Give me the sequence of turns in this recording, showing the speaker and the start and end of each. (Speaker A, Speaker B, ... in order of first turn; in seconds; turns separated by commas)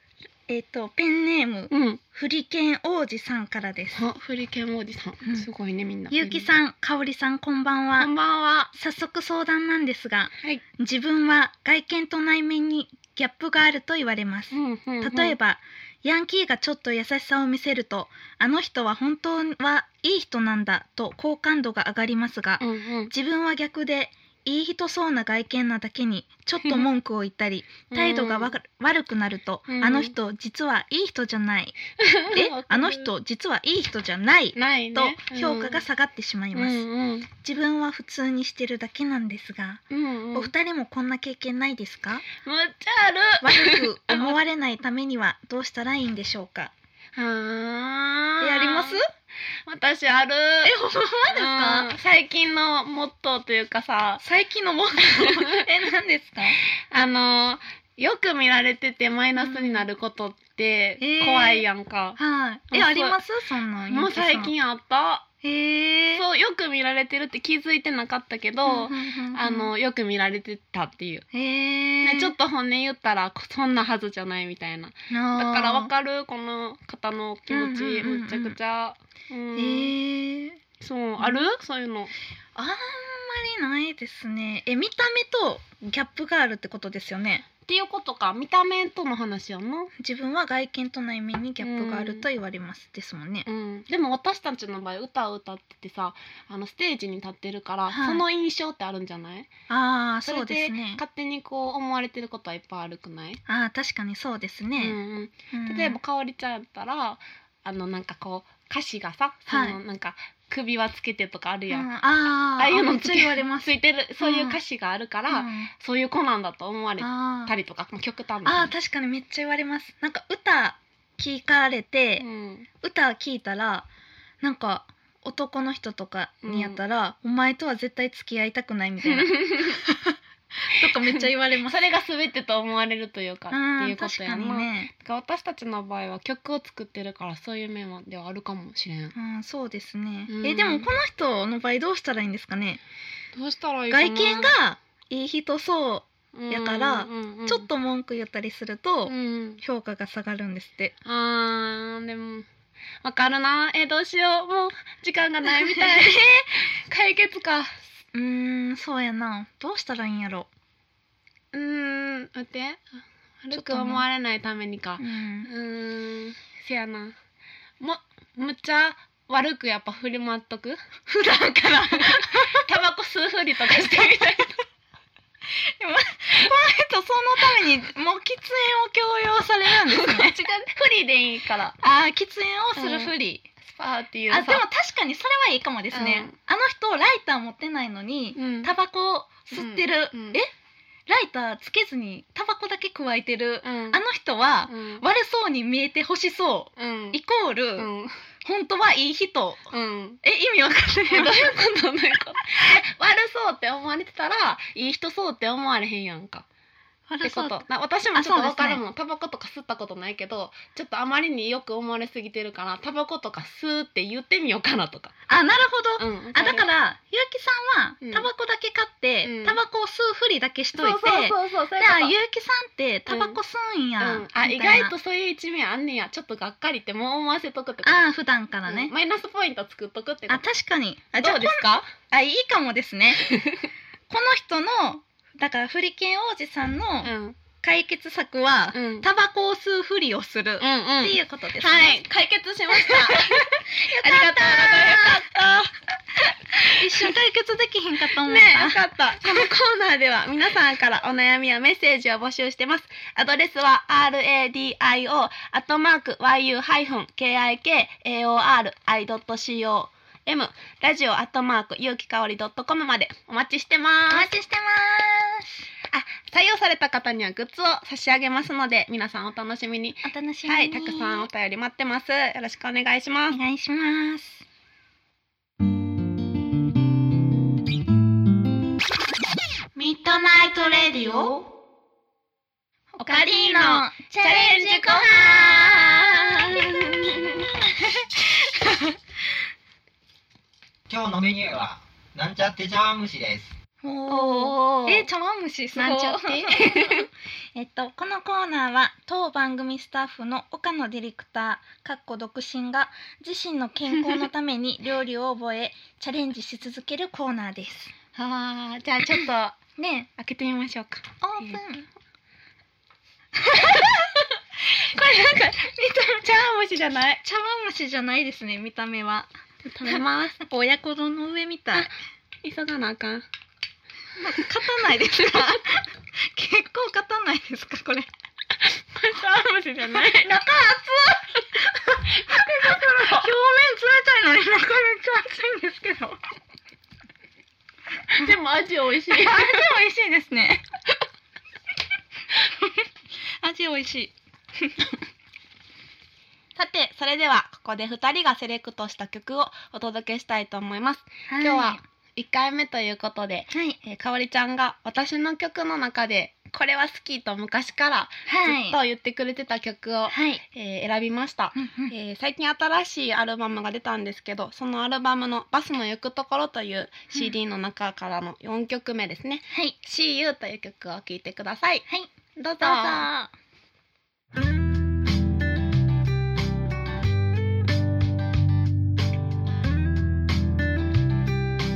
Speaker A: 0.5-4.0, Speaker B: 1.7-2.0, Speaker B: 3.9-6.5, Speaker A: 6.1-8.1, Speaker B: 8.0-8.7, Speaker A: 8.7-31.8, Speaker B: 14.5-15.3, Speaker B: 22.6-23.1, Speaker B: 26.6-26.9, Speaker B: 27.9-28.5, Speaker B: 29.7-30.1, Speaker B: 32.0-33.1, Speaker A: 32.3-36.8, Speaker B: 34.5-35.8, Speaker B: 36.5-37.3, Speaker A: 37.4-39.8, Speaker B: 39.9-40.5, Speaker A: 40.3-42.2, Speaker B: 42.4-44.4, Speaker A: 43.4-46.7, Speaker B: 47.1-49.0, Speaker A: 48.4-49.0, Speaker B: 49.7-50.7, Speaker A: 50.6-51.9, Speaker B: 51.3-54.2, Speaker A: 54.2-56.6, Speaker B: 55.0-55.6, Speaker B: 56.9-62.2, Speaker A: 59.4-59.9, Speaker A: 61.0-61.6, Speaker A: 62.2-64.5, Speaker B: 62.7-63.2, Speaker B: 63.9-65.3, Speaker A: 65.4-66.2, Speaker B: 66.1-71.2, Speaker A: 68.6-69.7, Speaker A: 71.3-72.3, Speaker B: 72.0-79.9, Speaker A: 75.1-75.9, Speaker A: 77.5-78.6, Speaker A: 79.5-80.6, Speaker B: 80.8-82.1, Speaker A: 82.5-87.5, Speaker B: 87.7-89.9, Speaker A: 90.0-93.5, Speaker B: 91.6-92.2, Speaker B: 93.5-99.5, Speaker A: 97.9-98.2, Speaker A: 99.7-101.0, Speaker B: 100.2-103.4, Speaker A: 103.5-105.0, Speaker B: 104.8-111.9, Speaker A: 105.5-106.0, Speaker A: 109.5-109.8, Speaker A: 111.7-114.6, Speaker B: 112.6-118.7, Speaker A: 115.3-115.7, Speaker A: 117.0-117.5, Speaker A: 118.4-122.2, Speaker B: 122.2-122.7, Speaker A: 122.8-123.9, Speaker A: 124.4-131.8, Speaker B: 126.4-126.8, Speaker B: 129.0-129.8, Speaker B: 130.8-139.1, Speaker A: 133.5-134.9, Speaker A: 139.1-142.8, Speaker B: 140.3-140.9, Speaker B: 143.3-144.5, Speaker A: 143.9-150.9, Speaker B: 146.3-147.7, Speaker B: 149.1-149.6, Speaker B: 151.0-152.5, Speaker B: 153.0-157.8, Speaker A: 155.6-156.2, Speaker A: 158.1-160.5, Speaker B: 161.5-162.9, Speaker B: 163.4-167.1, Speaker A: 163.5-164.0, Speaker A: 165.0-165.5, Speaker B: 167.8-170.8, Speaker A: 171.1-172.7, Speaker B: 172.0-174.6, Speaker A: 175.5-180.4, Speaker B: 179.8-181.8, Speaker A: 181.8-183.4, Speaker B: 182.8-183.1, Speaker B: 183.7-184.6, Speaker A: 184.3-190.5, Speaker B: 185.9-186.3, Speaker B: 188.3-188.7, Speaker B: 189.5-190.4, Speaker A: 191.1-197.9, Speaker B: 193.6-194.0, Speaker B: 194.7-195.0, Speaker B: 196.8-197.2, Speaker B: 197.8-198.1, Speaker A: 198.4-199.6, Speaker B: 199.7-200.2, Speaker A: 200.2-201.5, Speaker B: 201.1-206.4, Speaker A: 207.1-208.8, Speaker B: 207.2-215.1, Speaker A: 215.3-224.9, Speaker B: 216.0-216.7, Speaker B: 218.0-218.3, Speaker B: 219.2-219.6, Speaker B: 220.8-222.1, Speaker B: 223.1-223.4, Speaker B: 224.0-228.1, Speaker A: 227.8-228.9, Speaker B: 228.6-230.4, Speaker A: 230.3-233.2, Speaker B: 231.2-231.9, Speaker B: 233.2-233.7, Speaker A: 234.1-242.0, Speaker B: 237.0-237.4, Speaker B: 238.7-239.1, Speaker B: 240.6-245.7, Speaker A: 242.7-245.3, Speaker B: 246.5-247.1, Speaker A: 246.6-249.4, Speaker B: 248.2-264.3, Speaker A: 264.1-265.6, Speaker B: 265.9-273.4, Speaker A: 270.0-271.3, Speaker A: 273.3-274.4, Speaker B: 279.8-281.4, Speaker A: 283.0-289.0, Speaker B: 283.0-287.5, Speaker C: 290.9-293.5, Speaker A: 293.8-307.9, Speaker B: 294.1-295.1, Speaker B: 295.7-297.1, Speaker B: 308.1-309.6, Speaker A: 309.8-310.1, Speaker B: 310.2-311.6, Speaker A: 311.2-311.9, Speaker A: 313.4-316.3, Speaker B: 314.9-315.5, Speaker B: 316.2-317.2, Speaker A: 317.2-319.3, Speaker B: 319.6-320.4, Speaker A: 319.8-321.9, Speaker B: 322.4-323.2, Speaker A: 324.2-328.1, Speaker B: 328.9-330.4, Speaker A: 329.9-336.2, Speaker B: 332.1-333.3, Speaker B: 338.1-339.6, Speaker A: 339.1-340.6, Speaker A: 342.3-342.9, Speaker A: 343.4-344.9, Speaker B: 346.6-371.8, Speaker A: 351.3-351.8, Speaker A: 353.5-353.8, Speaker A: 358.2-358.8, Speaker A: 360.1-360.4, Speaker A: 361.5-361.9, Speaker A: 369.5-369.8, Speaker A: 371.9-373.3, Speaker B: 372.4-373.1